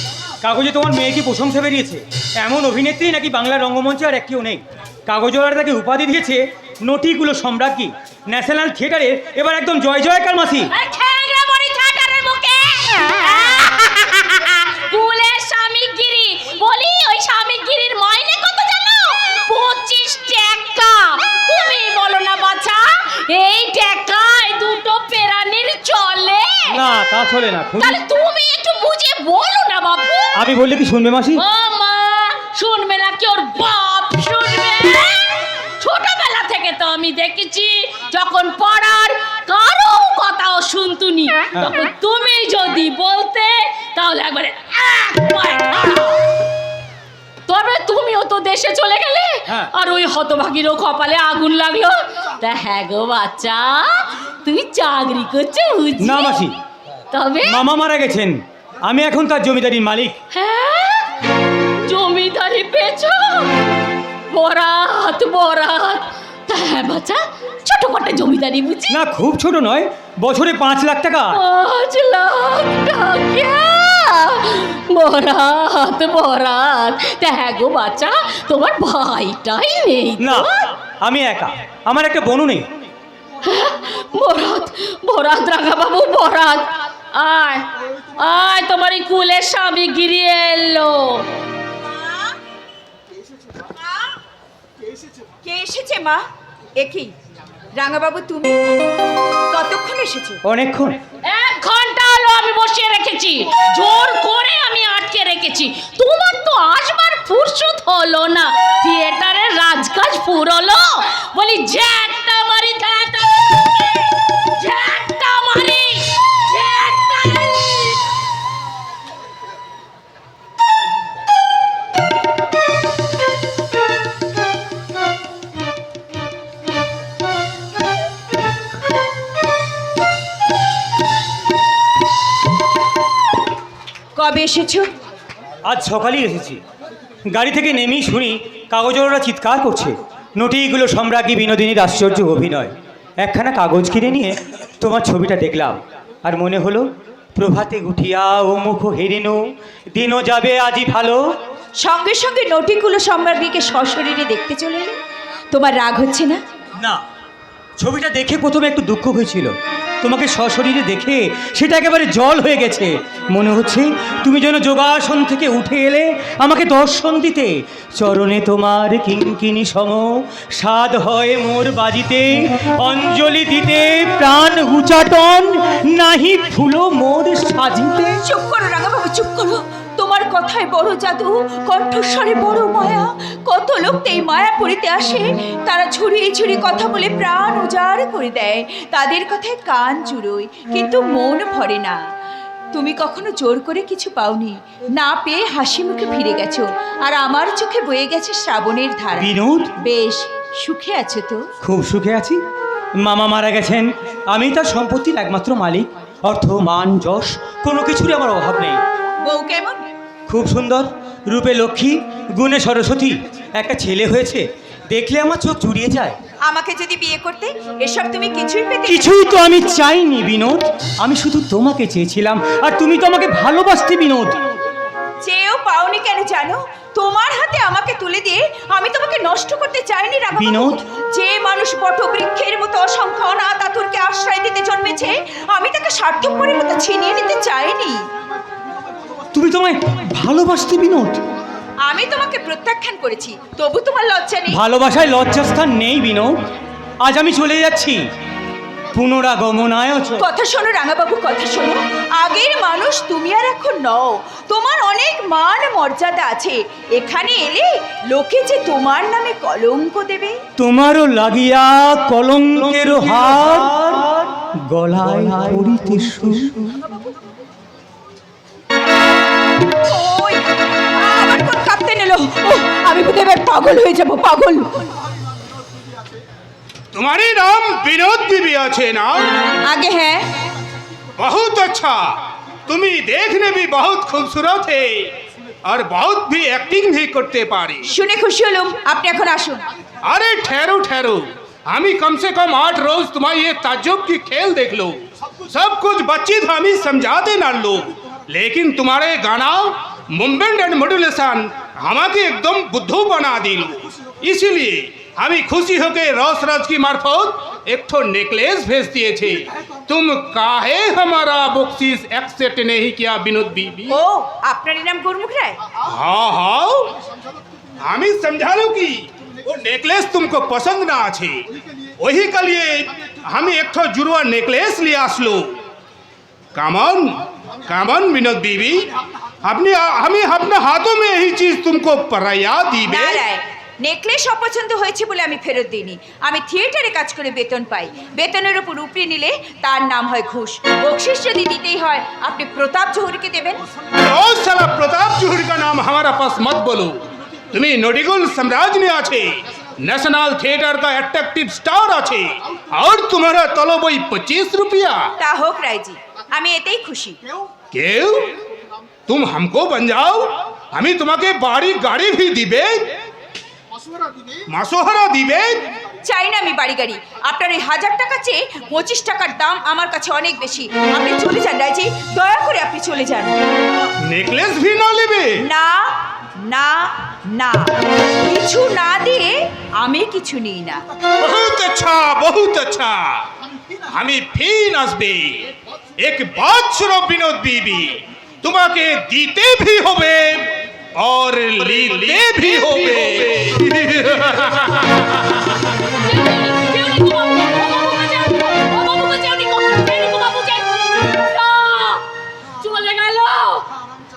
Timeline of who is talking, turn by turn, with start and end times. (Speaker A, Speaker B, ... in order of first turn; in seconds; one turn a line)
Speaker A: 0.4-10.7
Speaker B: 10.7-26.8
Speaker A: 26.7-28.0
Speaker B: 27.8-30.4
Speaker A: 30.3-31.4
Speaker B: 31.4-46.2
Speaker B: 47.5-56.4
Speaker A: 56.0-56.5
Speaker B: 57.1-57.6
Speaker A: 57.4-60.1
Speaker B: 60.3-61.1
Speaker B: 61.9-63.5
Speaker B: 64.3-69.0
Speaker A: 68.9-71.4
Speaker B: 71.3-80.5
Speaker A: 80.2-82.7
Speaker B: 83.4-91.2
Speaker C: 95.4-96.2
Speaker C: 96.8-97.1
Speaker C: 97.7-98.6
Speaker C: 99.5-100.4
Speaker A: 100.4-101.0
Speaker B: 101.2-118.0
Speaker C: 134.2-134.9
Speaker A: 135.6-136.6
Speaker A: 137.3-151.3
Speaker C: 151.8-155.0
Speaker C: 155.5-156.4
Speaker A: 157.8-178.2
Speaker C: 178.2-192.0
Speaker C: 192.7-199.3
Speaker A: 199.2-199.7
Speaker C: 199.8-201.5
Speaker A: 201.6-202.4
Speaker A: 203.0-208.8
Speaker C: 209.2-209.8
Speaker A: 210.3-216.2
Speaker C: 216.4-219.3
Speaker A: 218.8-224.4
Speaker C: 225.2-238.0
Speaker A: 230.3-230.8
Speaker A: 239.3-241.2
Speaker C: 241.8-244.6
Speaker A: 244.5-246.4
Speaker A: 247.0-248.1
Speaker A: 248.9-250.2
Speaker C: 250.2-260.4
Speaker A: 260.6-266.8
Speaker C: 269.8-274.9
Speaker D: 276.9-279.3
Speaker C: 279.6-280.3
Speaker D: 281.2-287.9
Speaker C: 287.9-289.6
Speaker D: 290.0-313.9
Speaker C: 313.9-315.6
Speaker D: 315.9-316.9
Speaker D: 317.8-321.4
Speaker D: 322.0-325.6
Speaker D: 326.5-328.9
Speaker D: 329.4-333.2
Speaker C: 332.9-343.6
Speaker D: 344.0-355.1
Speaker C: 355.2-357.2
Speaker D: 357.7-358.3
Speaker D: 359.1-362.9
Speaker D: 364.5-365.7
Speaker C: 366.0-373.4
Speaker D: 374.1-375.3
Speaker C: 375.4-377.7
Speaker C: 378.2-380.8
Speaker D: 381.2-383.3
Speaker D: 383.9-395.3
Speaker B: 395.8-402.1
Speaker B: 402.6-403.7